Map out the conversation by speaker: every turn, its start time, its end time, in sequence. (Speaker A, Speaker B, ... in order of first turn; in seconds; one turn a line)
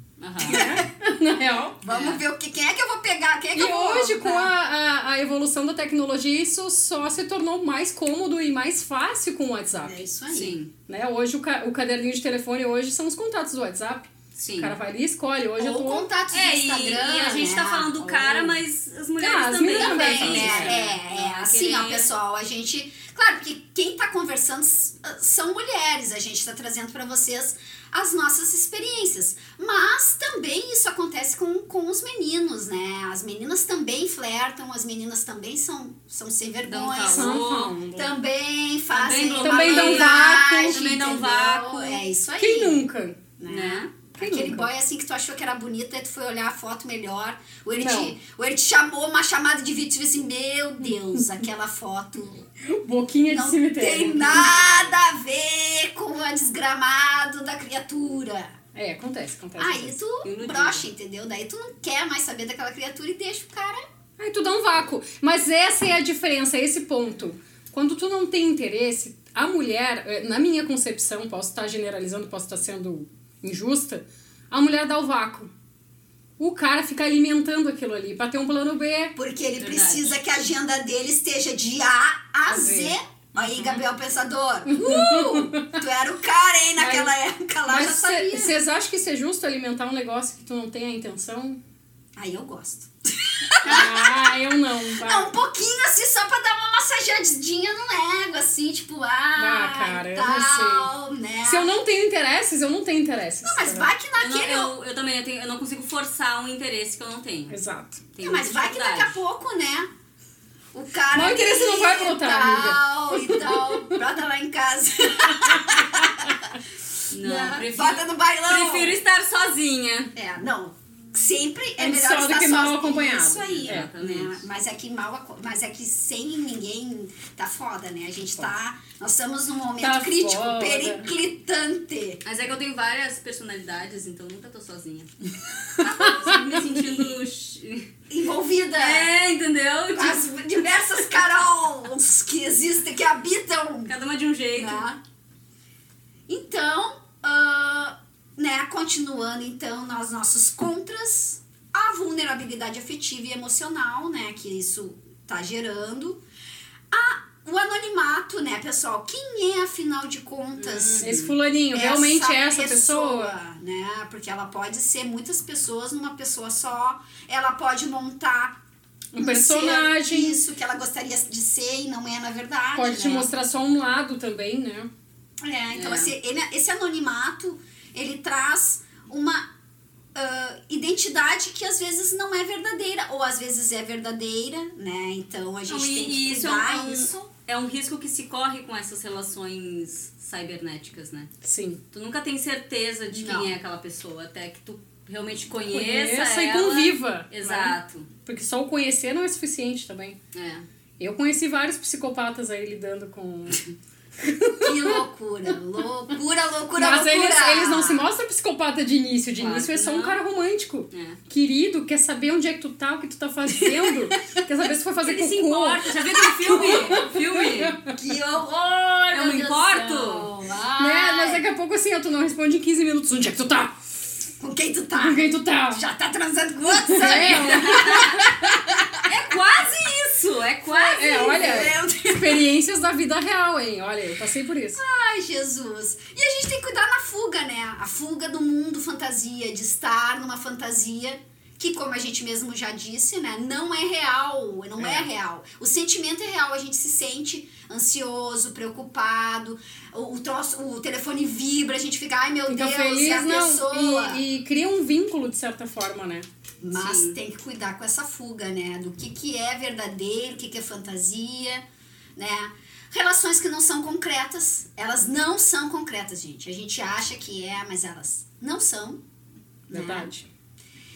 Speaker A: 0.2-0.7
Speaker B: 0.5-0.9
Speaker C: 0.5-1.8
Speaker B: 1.8-4.5
Speaker A: 1.9-2.2
Speaker C: 3.5-10.0
Speaker B: 9.8-10.6
Speaker A: 10.3-10.7
Speaker C: 10.9-16.1
Speaker A: 14.4-14.8
Speaker B: 15.6-18.6
Speaker A: 16.3-22.1
Speaker C: 19.2-20.8
Speaker B: 19.6-37.4
Speaker A: 36.6-37.8
Speaker C: 37.1-38.1
Speaker B: 38.0-42.9
Speaker A: 38.9-42.0
Speaker C: 39.4-40.9
Speaker C: 42.4-43.2
Speaker B: 43.4-52.5
Speaker A: 43.5-43.9
Speaker C: 44.2-44.7
Speaker C: 47.8-48.1
Speaker C: 52.7-54.5
Speaker B: 53.3-58.5
Speaker A: 54.5-54.9
Speaker C: 58.7-59.9
Speaker B: 59.6-63.8
Speaker A: 60.2-60.9
Speaker C: 64.2-75.5
Speaker C: 76.4-79.2
Speaker B: 79.2-88.6
Speaker A: 79.6-80.2
Speaker C: 82.5-83.0
Speaker C: 84.7-85.7
Speaker C: 86.8-87.1
Speaker C: 87.7-91.6
Speaker B: 92.2-94.4
Speaker C: 93.6-95.3
Speaker B: 95.0-101.8
Speaker C: 99.4-100.9
Speaker C: 101.4-103.9
Speaker B: 103.4-104.7
Speaker A: 104.2-107.5
Speaker C: 107.5-108.0
Speaker A: 108.1-109.2
Speaker B: 108.2-109.9
Speaker B: 110.7-116.3
Speaker C: 111.1-113.6
Speaker A: 117.1-120.1
Speaker B: 117.2-119.0
Speaker B: 120.2-132.2
Speaker C: 121.8-123.9
Speaker A: 123.5-124.4
Speaker C: 129.8-131.1
Speaker A: 132.2-135.1
Speaker A: 135.8-137.9
Speaker B: 138.1-139.1
Speaker A: 138.8-140.3
Speaker B: 139.9-143.9
Speaker A: 143.9-144.8
Speaker B: 144.6-145.0
Speaker B: 146.3-156.2
Speaker B: 156.9-161.2
Speaker A: 160.6-161.3
Speaker C: 161.0-163.3
Speaker B: 161.7-168.6
Speaker C: 169.1-170.4
Speaker B: 169.2-173.3
Speaker C: 172.8-174.9
Speaker B: 175.4-179.4
Speaker A: 175.7-176.1
Speaker B: 180.2-187.1
Speaker A: 185.7-191.3
Speaker C: 191.4-191.8
Speaker A: 191.9-198.1
Speaker B: 193.1-193.5
Speaker C: 195.7-200.2
Speaker A: 200.3-200.6
Speaker C: 201.0-203.6
Speaker C: 204.2-205.0
Speaker B: 204.6-208.1
Speaker C: 206.7-217.9
Speaker A: 209.4-210.2
Speaker A: 210.9-211.2
Speaker A: 215.0-217.9
Speaker B: 216.1-217.1
Speaker B: 217.9-221.5
Speaker A: 219.1-220.3
Speaker C: 220.8-223.8
Speaker B: 224.4-229.0
Speaker C: 225.0-225.8
Speaker C: 226.9-228.4
Speaker A: 227.0-228.2
Speaker A: 229.1-231.4
Speaker C: 230.7-234.8
Speaker B: 230.9-232.4
Speaker B: 234.8-254.2
Speaker A: 244.8-245.1
Speaker C: 252.5-256.3
Speaker B: 256.6-261.6
Speaker A: 256.7-257.1
Speaker B: 262.2-269.0
Speaker B: 269.7-270.1
Speaker C: 269.7-270.3